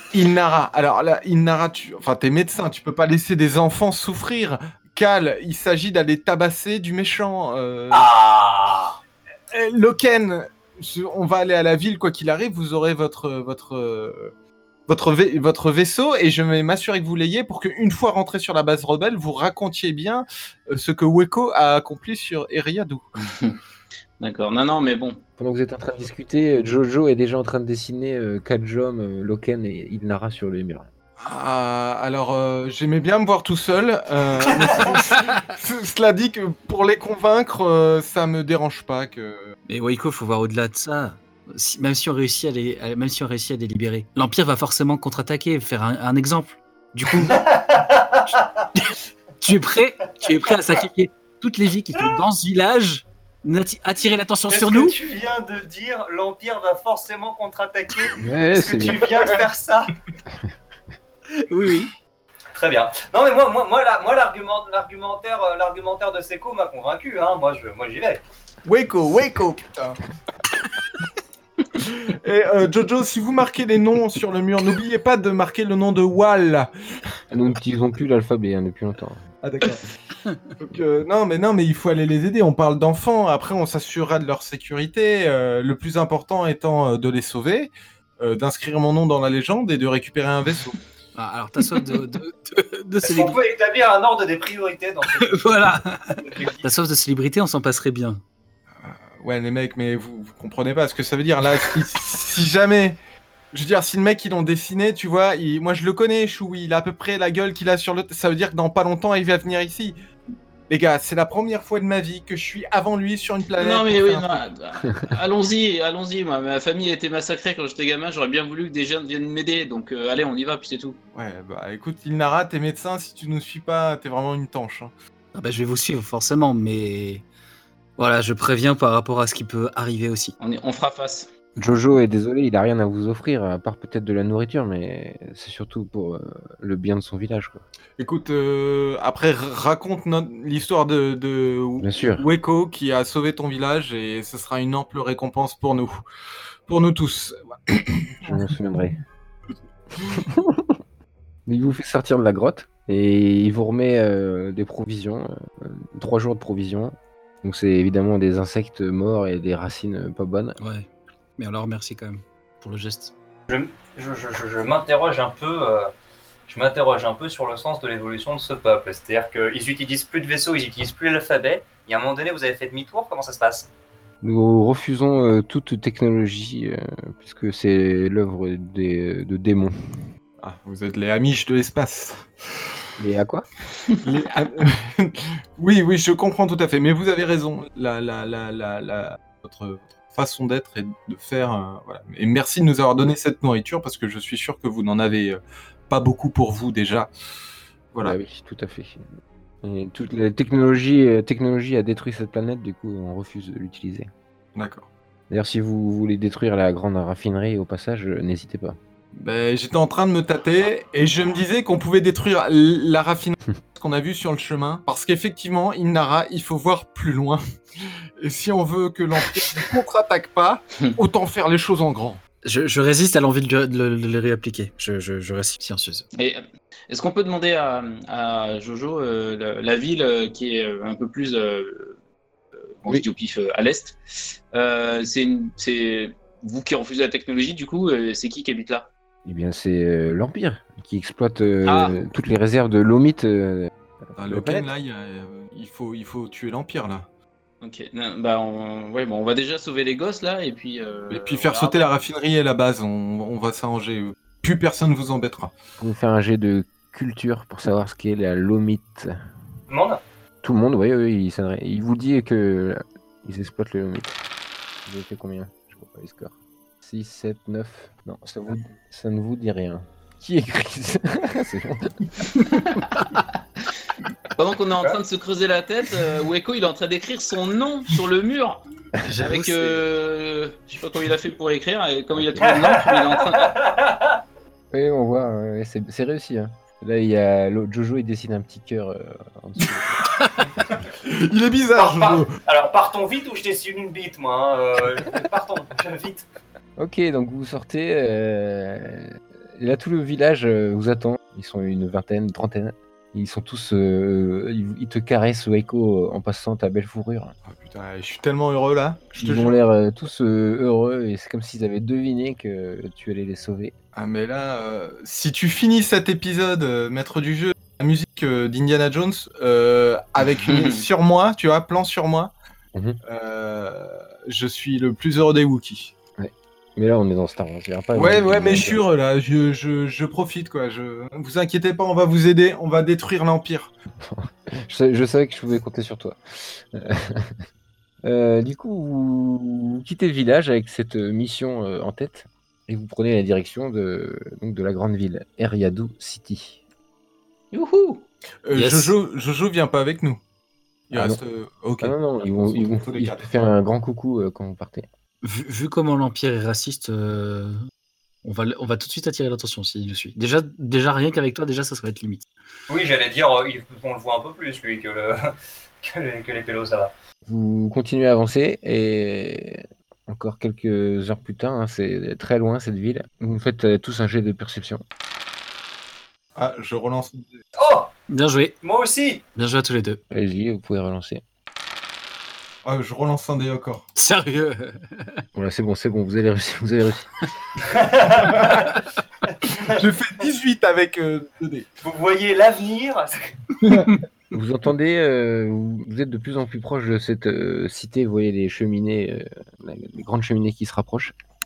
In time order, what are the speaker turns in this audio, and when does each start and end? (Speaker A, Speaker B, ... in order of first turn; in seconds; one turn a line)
Speaker A: 0.1-8.1
Speaker B: 7.9-9.0
Speaker A: 9.5-14.3
Speaker A: 14.9-23.1
Speaker C: 23.2-23.6
Speaker C: 24.2-25.2
Speaker D: 25.4-30.9
Speaker A: 31.2-39.6
Speaker B: 34.5-35.0
Speaker E: 39.7-47.4
Speaker B: 47.1-48.7
Speaker E: 49.4-55.0
Speaker B: 50.0-50.8
Speaker B: 54.5-59.9
Speaker D: 58.2-59.1
Speaker E: 61.4-61.9
Speaker B: 62.5-68.2
Speaker A: 68.7-70.0
Speaker A: 71.7-76.7
Speaker D: 77.3-79.2
Speaker A: 79.4-79.9
Speaker A: 80.6-90.8
Speaker E: 91.2-93.4
Speaker B: 93.0-96.7
Speaker E: 95.2-98.2
Speaker A: 98.8-103.0
Speaker A: 103.5-110.0
Speaker A: 110.7-114.4
Speaker C: 113.6-121.0
Speaker A: 121.2-124.9
Speaker E: 125.3-127.3
Speaker E: 128.0-130.4
Speaker C: 130.4-131.3
Speaker D: 131.6-137.6
Speaker A: 138.0-146.0
Speaker D: 141.8-142.2
Speaker A: 146.7-148.4
Speaker D: 148.2-149.0
Speaker D: 150.1-150.7
Speaker D: 151.5-160.6
Speaker E: 160.6-163.1
Speaker B: 163.5-165.9
Speaker B: 166.5-173.7
Speaker D: 174.2-179.8
Speaker A: 180.4-182.3
Speaker D: 183.0-183.5
Speaker A: 184.0-197.1
Speaker A: 197.9-198.2
Speaker D: 198.0-199.1
Speaker D: 199.6-204.1
Speaker A: 204.6-204.9
Speaker D: 205.3-208.8
Speaker A: 209.1-222.2
Speaker E: 222.4-226.1
Speaker C: 226.2-232.0
Speaker C: 232.8-238.9
Speaker D: 239.2-244.7
Speaker C: 241.7-242.0
Speaker A: 244.2-247.1
Speaker C: 247.6-251.9
Speaker A: 251.1-255.5
Speaker D: 255.8-259.1
Speaker B: 259.7-260.0
Speaker D: 260.4-264.2
Speaker D: 264.9-272.1
Speaker C: 274.4-278.6
Speaker E: 279.0-279.8
Speaker C: 279.2-283.5
Speaker B: 282.4-284.2
Speaker D: 284.7-290.0
Speaker A: 290.0-292.4
Speaker B: 291.8-296.3
Speaker D: 296.8-307.4
Speaker A: 307.5-309.6
Speaker D: 309.1-313.8
Speaker A: 313.9-322.3
Speaker C: 320.4-320.9
Speaker D: 322.7-323.0
Speaker A: 323.1-325.9
Speaker D: 326.2-328.8
Speaker A: 327.9-333.7
Speaker D: 334.0-337.4
Speaker D: 338.0-346.6
Speaker C: 347.5-348.1
Speaker A: 348.4-350.2
Speaker E: 348.5-348.9
Speaker A: 350.9-353.3
Speaker D: 350.9-351.2
Speaker D: 351.8-354.9
Speaker E: 355.2-357.6
Speaker E: 358.2-362.3
Speaker B: 362.7-366.9
Speaker D: 367.3-374.8
Speaker A: 376.4-377.3
Speaker B: 377.6-377.9
Speaker E: 378.1-378.6
Speaker B: 378.6-379.2
Speaker E: 379.4-380.0
Speaker D: 380.1-381.2
Speaker A: 382.6-383.9
Speaker E: 384.0-385.2
Speaker D: 385.4-387.1
Speaker B: 387.6-388.5
Speaker A: 388.3-388.6
Speaker B: 389.3-389.8
Speaker A: 389.4-391.7
Speaker B: 391.8-393.7
Speaker D: 394.3-401.1